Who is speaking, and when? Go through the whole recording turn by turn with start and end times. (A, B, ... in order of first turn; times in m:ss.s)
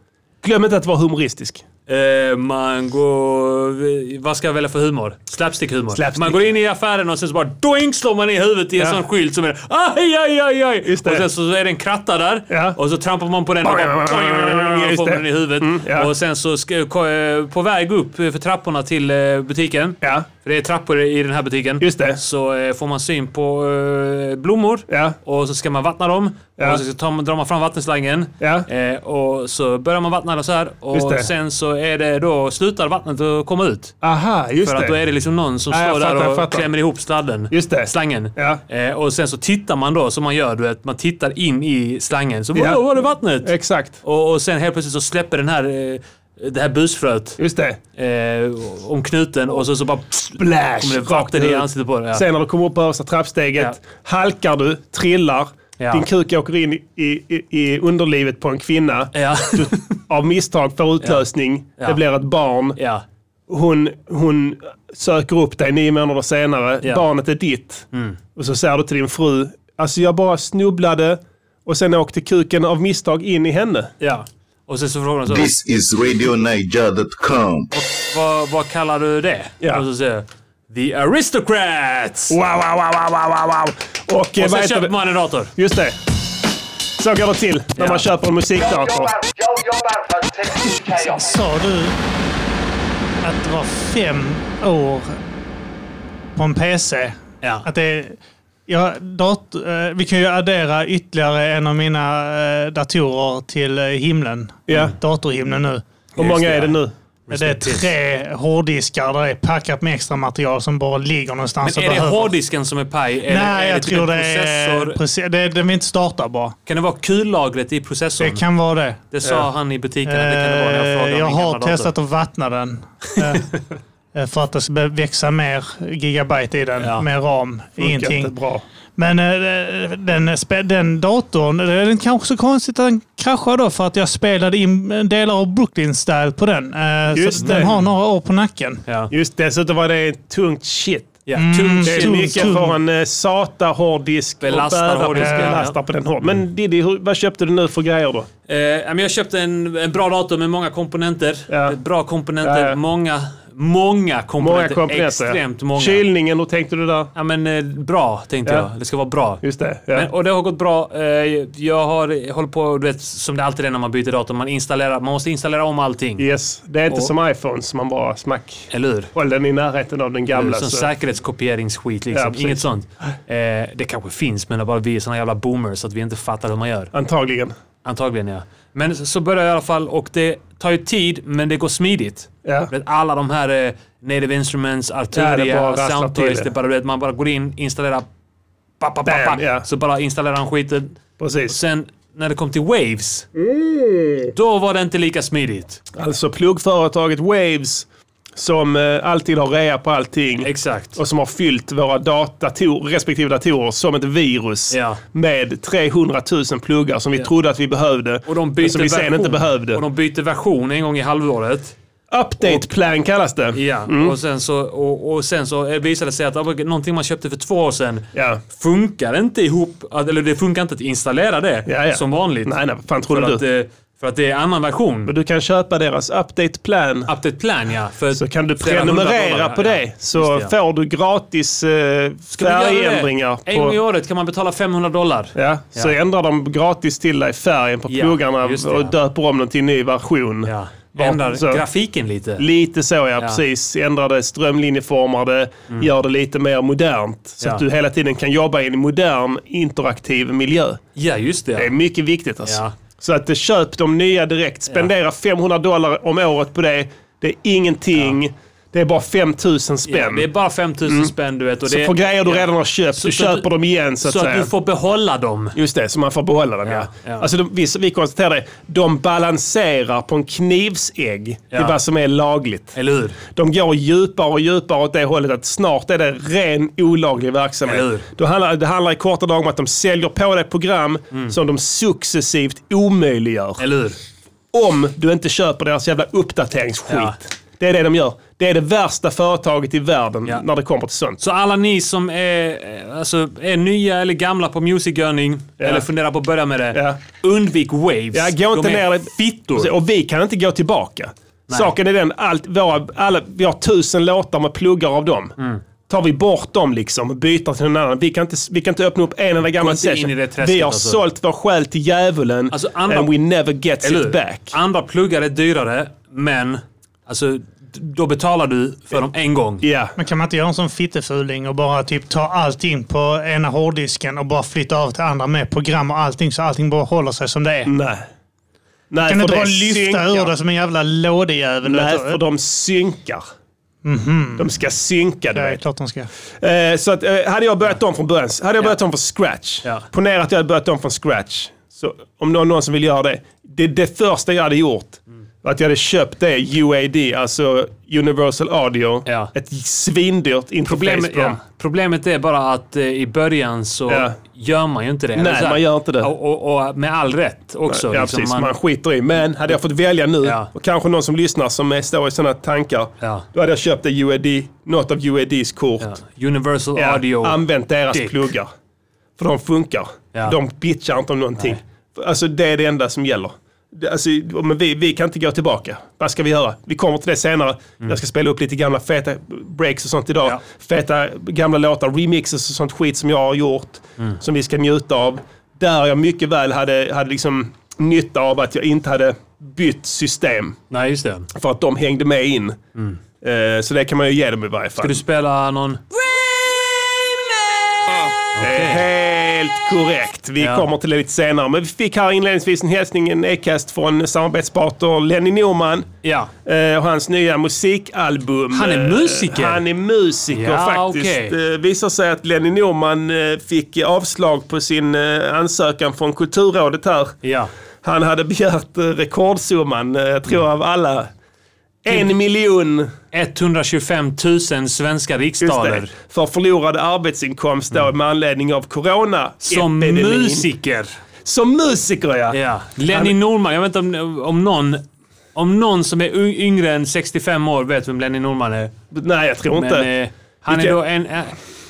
0:00.4-0:01.6 A
0:01.9-0:34.0 B
0:05.9-0:06.4 A
0:10.8-0:11.2 A
0:12.5-0:12.8 A
0:13.6-0:16.1 A
0:20.0-0:20.3 A
0:21.8-0:22.2 A
0:24.9-0:25.2 A
0:28.4-0:28.7 A
0:30.9-0:31.3 A
0:34.0-0:35.0 A
0:34.6-0:43.5 B
0:35.7-0:36.7 A
0:37.5-0:38.6 A
0:42.6-0:42.8 A
0:43.4-0:44.0 A
0:44.0-0:47.4 B
0:47.4-0:47.8 A
0:48.0-0:52.2 B
0:50.4-1:02.8 A
0:55.8-0:56.1 B
0:59.1-0:59.9 B
1:02.8-1:03.0 B
1:03.5-1:13.9 A
1:07.9-1:08.2 B
1:14.0-1:15.5 B
1:15.3-1:17.7 C
1:17.7-1:22.4 B
1:22.3-1:24.9 A
1:24.4-1:25.5 B
1:25.5-1:26.0 A
1:27.0-1:29.2 A
1:27.8-1:28.0 B
1:28.6-1:31.4 D
1:30.9-1:32.0 E
1:33.2-1:35.2 E
1:36.4-1:45.8 E
1:37.4-1:37.7 B
1:44.7-1:44.9 A
1:46.2-1:46.8 B
1:46.2-1:46.9 A
1:47.3-1:47.9 B
1:47.3-1:52.3 E
1:51.6-1:55.0 B
1:53.3-1:56.6 E
1:56.7-1:58.4 B
1:58.2-1:59.0 E
1:59.1-2:01.9 B
2:00.0-2:03.6 E
2:04.1-2:08.3 E
2:06.8-2:07.1 B
2:07.8-2:08.6 A
2:09.0-2:18.8 E
2:17.1-2:17.7 A
2:19.1-2:21.2 A
2:21.3-2:22.5 B
2:21.4-2:22.8 E
2:21.8-2:28.3 A
2:24.4-2:25.8 B
2:25.2-2:25.6 E
2:28.5-2:36.0 B
2:31.5-2:31.8 A
2:32.4-2:32.8 A
2:34.4-2:37.1 A
2:37.2-2:46.3 B
2:39.4-2:40.1 A
2:46.2-2:50.9 A
2:48.7-2:49.1 B
2:50.3-2:56.9 B
2:52.1-2:52.6 A
2:56.9-2:57.6 A
2:57.8-3:08.1 B
3:02.4-3:02.7 A
3:05.1-3:06.5 A
3:08.8-3:11.0 B
3:09.0-3:09.6 A
3:11.2-3:11.6 A
3:11.5-3:13.3 B
3:13.4-3:14.3 A
3:14.3-3:15.8 B
3:16.0-3:29.8 A
3:20.4-3:21.0 B
3:24.7-3:25.0 B
3:28.3-3:31.7 B
3:32.1-3:34.2 A
3:33.5-3:42.6 B
3:38.1-3:38.4 A
3:41.7-3:43.4 A
3:43.1-3:45.1 B
3:45.1-3:47.1 A
3:47.1-3:50.5 B
3:48.1-3:53.8 A
3:52.4-3:55.9 B
3:55.4-4:01.6 A
3:57.9-3:59.0 B
4:00.5-4:02.4 B
4:02.4-4:10.8 A
4:11.0-4:11.7 B
4:11.6-4:20.3 A
4:12.5-4:12.7 B
4:19.9-4:23.5 B
4:20.9-4:21.1 A
4:21.7-4:24.5 A
4:24.0-4:25.6 B
4:25.6-4:32.8 A
4:26.7-4:27.3 B
4:31.5-4:31.8 B
4:32.8-4:33.2 B
4:33.3-4:43.6 A
4:37.7-4:38.1 B
4:43.6-4:44.0 B
4:44.5-4:51.2 A
4:46.9-4:47.2 B
4:51.2-4:59.7 B
4:55.6-4:55.9 A
4:56.7-4:57.0 A
4:58.1-5:05.4 A
5:05.9-5:14.6 A
5:09.5-5:11.0 B
5:12.5-5:13.1 B
5:13.8-5:19.7 B
5:19.6-5:20.0 A
5:20.0-5:27.7 E
5:27.7-5:28.1 A
5:28.9-5:30.3 A
5:29.1-5:32.2 E
5:31.6-5:33.2 A
5:33.8-5:34.5 E
5:34.4-5:35.6 A
5:35.3-5:36.1 E
5:36.4-5:51.4 A
5:49.1-5:49.3 B
5:50.7-5:58.5 B
5:53.9-5:54.2 A
5:55.2-5:56.1 A
5:57.7-6:06.0 A
6:00.2-6:00.5 B
6:05.8-6:08.2 B
6:06.8-6:08.5 A
6:09.2-6:30.6 A
6:30.7-6:31.3 B
6:31.3-6:32.6 A
6:33.2-6:35.0 A
6:34.8-6:35.8 B
6:38.4-6:38.9 B
6:38.4-6:45.9 A
6:40.4-6:40.7 B
6:46.0-6:46.3 B
6:46.4-6:57.2 A
6:48.5-6:49.6 B
6:50.3-6:51.4 B
6:57.2-6:57.5 B
6:57.8-7:01.1 A
7:01.8-7:02.9 A
7:03.1-7:05.9 B
7:05.4-7:10.5 A
7:09.4-7:11.0 B
7:11.2-7:12.4 A
7:12.3-7:14.8 B
7:12.9-7:13.2 A
7:15.4-7:18.7 B
7:18.9-7:19.9 A
7:19.5-7:21.4 B
7:20.5-7:20.8 A